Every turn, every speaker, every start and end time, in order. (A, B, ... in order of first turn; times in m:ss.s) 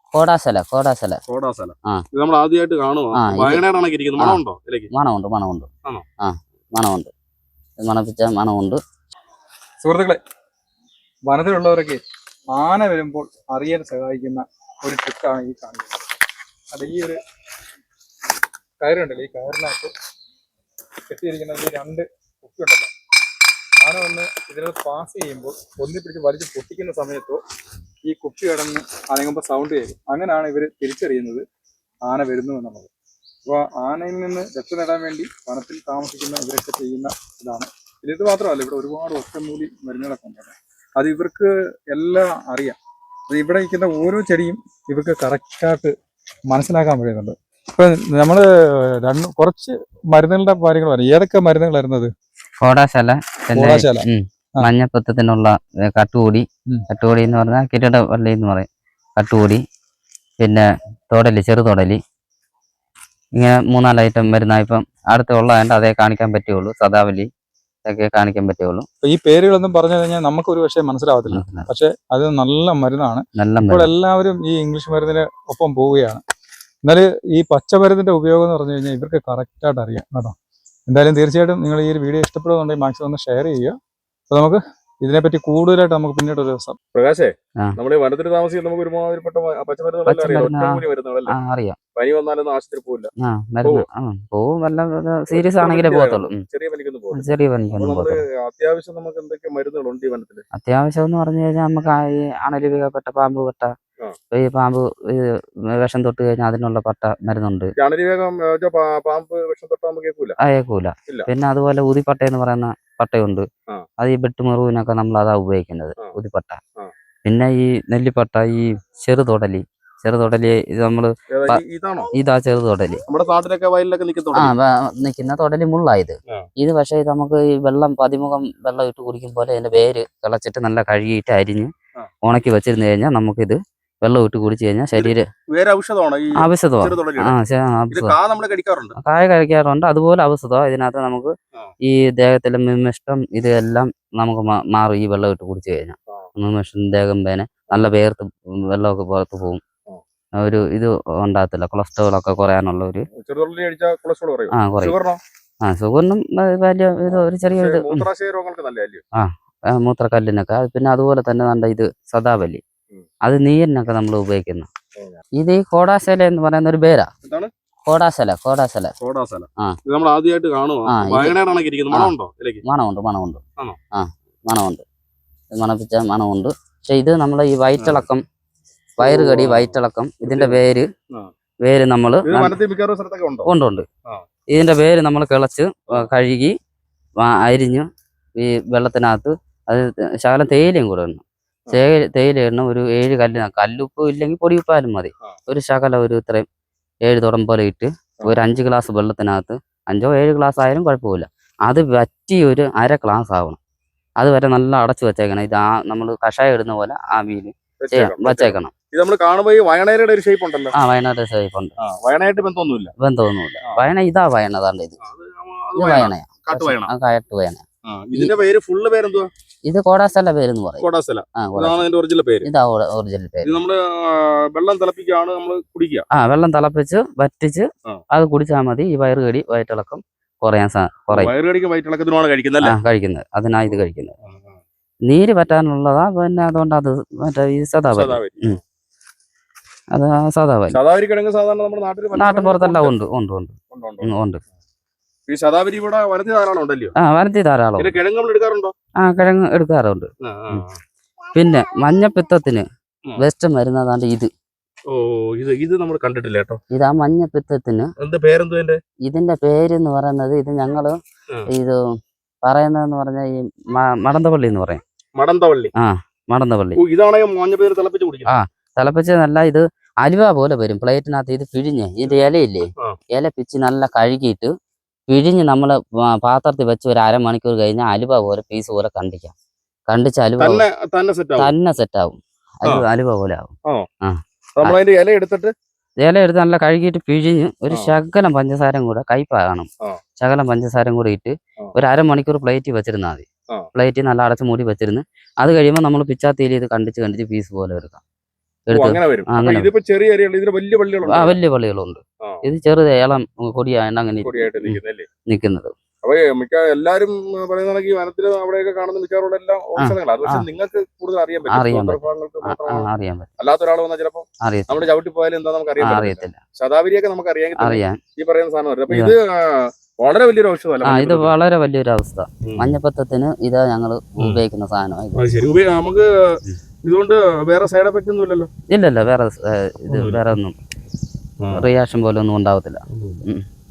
0:00.1-0:01.2 A
0:01.3-0:04.9 B
0:03.2-0:03.6 A
0:04.9-0:05.7 A
0:06.2-0:07.1 A
0:07.8-0:08.8 A
0:09.8-0:10.2 C
0:11.3-0:12.0 C
0:12.5-0:16.0 C
0:16.7-0:17.2 C
0:18.8-0:19.9 C
0:21.1-0:22.9 C
0:23.8-0:27.4 C
0:28.1-0:31.4 C
0:32.1-0:32.9 C
0:33.5-0:42.8 C
0:43.3-0:45.9 C
0:46.5-0:52.1 C
0:52.6-0:59.6 A
0:53.6-0:54.1 C
1:00.4-1:02.0 A
1:03.4-1:07.3 A
1:07.9-1:08.9 A
1:09.0-1:16.2 C
1:11.3-1:11.7 A
1:13.4-1:13.9 A
1:16.8-1:20.4 C
1:20.9-1:23.8 C
1:24.3-1:26.8 C
1:26.9-1:31.4 B
1:30.1-1:31.8 A
1:32.0-1:33.1 B
1:33.2-1:36.4 A
1:35.3-1:40.4 B
1:37.1-1:38.2 A
1:40.5-1:43.7 A
1:44.3-1:45.2 A
1:45.8-1:47.7 A
1:47.8-1:50.4 B
1:50.4-1:53.5 A
1:54.0-1:56.6 A
1:57.3-2:01.6 A
2:01.3-2:02.1 B
2:02.2-2:03.0 A
2:03.1-2:04.6 B
2:04.3-2:11.7 A
2:12.2-2:15.3 A
2:15.0-2:17.4 B
2:16.4-2:18.1 A
2:17.9-2:19.0 B
2:19.0-2:21.3 A
2:21.8-2:29.6 A
2:30.4-2:33.1 A
2:33.2-2:35.2 B
2:34.5-2:35.0 A
2:35.6-2:38.0 A
2:37.1-2:39.0 B
2:39.2-2:42.6 A
2:43.2-2:44.7 A
2:45.0-2:45.2 B
2:45.4-2:47.1 A
2:47.2-2:47.5 B
2:47.9-2:48.9 A
2:49.0-2:52.6 B
2:50.9-2:51.4 A
2:52.6-2:53.4 A
2:53.9-2:54.8 A
2:55.5-2:58.2 A
2:57.8-2:58.0 B
2:59.0-3:00.9 A
2:59.0-3:00.6 B
3:01.6-3:02.5 A
3:02.2-3:03.5 B
3:03.5-3:03.9 A
3:04.5-3:06.6 A
3:07.2-3:16.4 A
3:17.1-3:23.6 A
3:24.2-3:28.7 A
3:27.8-3:30.8 B
3:30.8-3:31.7 A
3:31.8-3:32.9 B
3:33.0-3:35.0 A
3:35.0-3:36.9 B
3:35.8-3:37.6 A
3:37.9-3:39.3 B
3:39.6-3:40.8 A
3:40.8-3:42.5 B
3:41.4-3:41.9 A
3:42.4-3:43.5 A
3:43.4-3:46.1 B
3:46.1-3:51.3 A
3:51.1-3:52.8 B
3:52.6-3:54.1 A
3:53.7-3:54.6 B
3:55.1-3:58.6 A
3:57.9-3:58.6 B
3:59.9-4:00.8 A
4:00.7-4:03.0 B
4:02.1-4:04.4 A
4:03.7-4:04.1 B
4:05.3-4:06.9 B
4:07.0-4:08.0 A
4:07.8-4:08.7 B
4:09.0-4:10.6 A
4:10.2-4:10.8 B
4:11.3-4:12.7 A
4:13.2-4:14.3 A
4:14.9-4:16.6 B
4:16.7-4:17.9 A
4:18.0-4:18.8 B
4:19.1-4:20.9 A
4:21.5-4:21.8 A
4:22.4-4:24.8 A
4:25.2-4:25.7 B
4:25.8-4:26.8 A
4:26.8-4:28.3 B
4:28.3-4:34.5 A
4:35.1-4:39.3 A
4:39.9-4:40.6 A
4:40.4-4:41.5 B
4:41.4-4:44.8 A
4:44.6-4:45.5 B
4:46.0-4:49.7 A
4:50.2-4:58.0 A
4:58.7-4:59.7 A
4:58.7-5:01.4 B
5:01.1-5:05.7 A
5:04.2-5:05.1 B
5:06.0-5:12.9 B
5:09.8-5:10.4 A
5:11.5-5:13.3 A
5:13.4-5:21.4 B
5:14.4-5:14.8 A
5:15.8-5:16.4 A
5:17.6-5:18.0 A
5:20.8-5:25.2 A
5:22.4-5:22.8 B
5:25.2-5:28.5 B
5:28.7-5:30.6 A
5:29.9-5:30.2 B
5:31.4-5:31.7 B
5:31.5-5:33.4 A
5:32.9-5:33.2 B